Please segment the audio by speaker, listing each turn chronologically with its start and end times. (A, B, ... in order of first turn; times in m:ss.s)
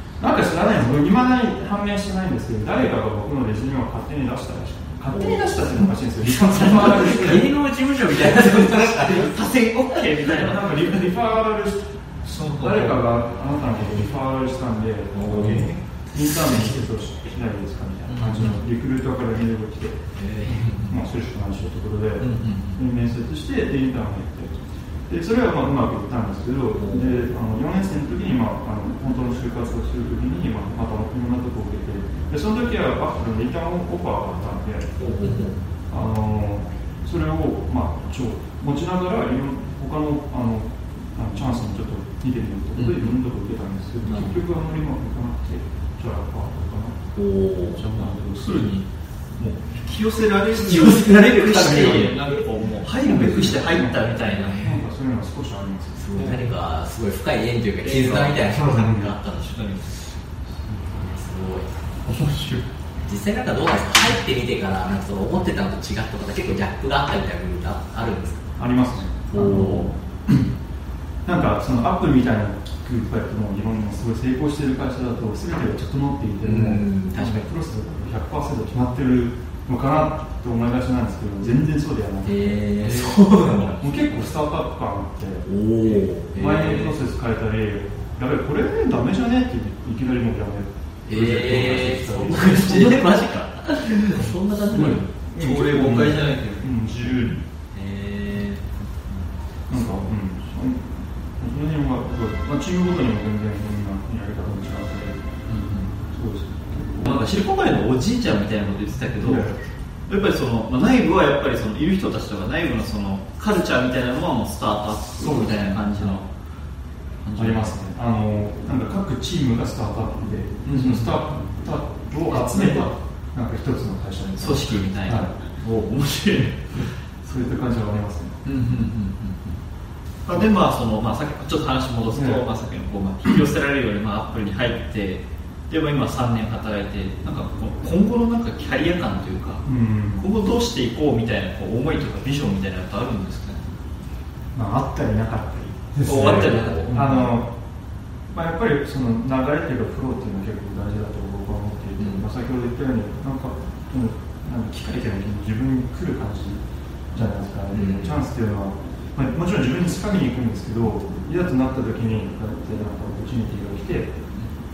0:00.2-0:07.5 A
0:05.1-0:09.4 B
0:08.5-0:11.1 C
0:10.2-0:12.0 A
0:12.2-0:13.1 C
0:12.6-0:20.0 A
0:15.1-0:15.7 B
0:15.3-0:15.7 C
0:18.1-0:18.6 C
0:20.2-0:20.8 B
0:20.5-0:21.0 C
0:20.8-0:35.0 A
0:22.2-0:22.8 C
0:26.8-0:27.1 B
0:35.0-0:35.6 B
0:35.2-0:35.5 C
0:35.9-0:47.0 A
0:42.8-0:43.2 C
0:44.0-0:44.4 B
0:47.2-0:47.8 B
0:47.8-0:54.8 C
0:47.8-0:48.7 A
0:50.5-0:52.4 B
0:53.1-0:56.3 A
0:53.1-0:53.3 B
0:54.2-0:54.6 B
0:56.0-0:59.6 B
0:56.2-0:56.5 C
0:57.8-0:59.9 C
0:58.8-0:59.1 A
1:00.6-1:01.7 B
1:02.0-1:02.6 C
1:03.0-1:08.5 B
1:08.6-1:10.5 A
1:09.3-1:09.9 B
1:11.2-1:25.5 A
1:16.4-1:17.5 B
1:22.2-1:23.8 B
1:22.8-1:23.2 C
1:25.5-1:26.9 B
1:26.3-1:33.0 A
1:31.1-1:35.1 B
1:34.7-1:37.4 A
1:34.8-1:36.7 C
1:37.7-1:38.7 B
1:39.7-1:45.3 A
1:45.5-1:45.9 C
1:46.1-1:47.3 A
1:47.0-1:49.6 C
1:49.2-1:49.6 A
1:50.1-1:56.3 C
1:55.2-1:56.2 A
1:57.2-1:57.7 C
1:57.4-2:05.3 A
2:00.6-2:01.2 C
2:02.3-2:02.9 C
2:04.4-2:06.9 C
2:07.2-2:08.4 A
2:08.4-2:09.6 C
2:10.2-2:23.7 C
2:12.1-2:12.4 A
2:19.7-2:20.3 A
2:24.5-2:27.5 A
2:26.0-2:27.3 C
2:26.1-2:27.1 B
2:28.3-2:44.2 A
2:37.7-2:38.2 B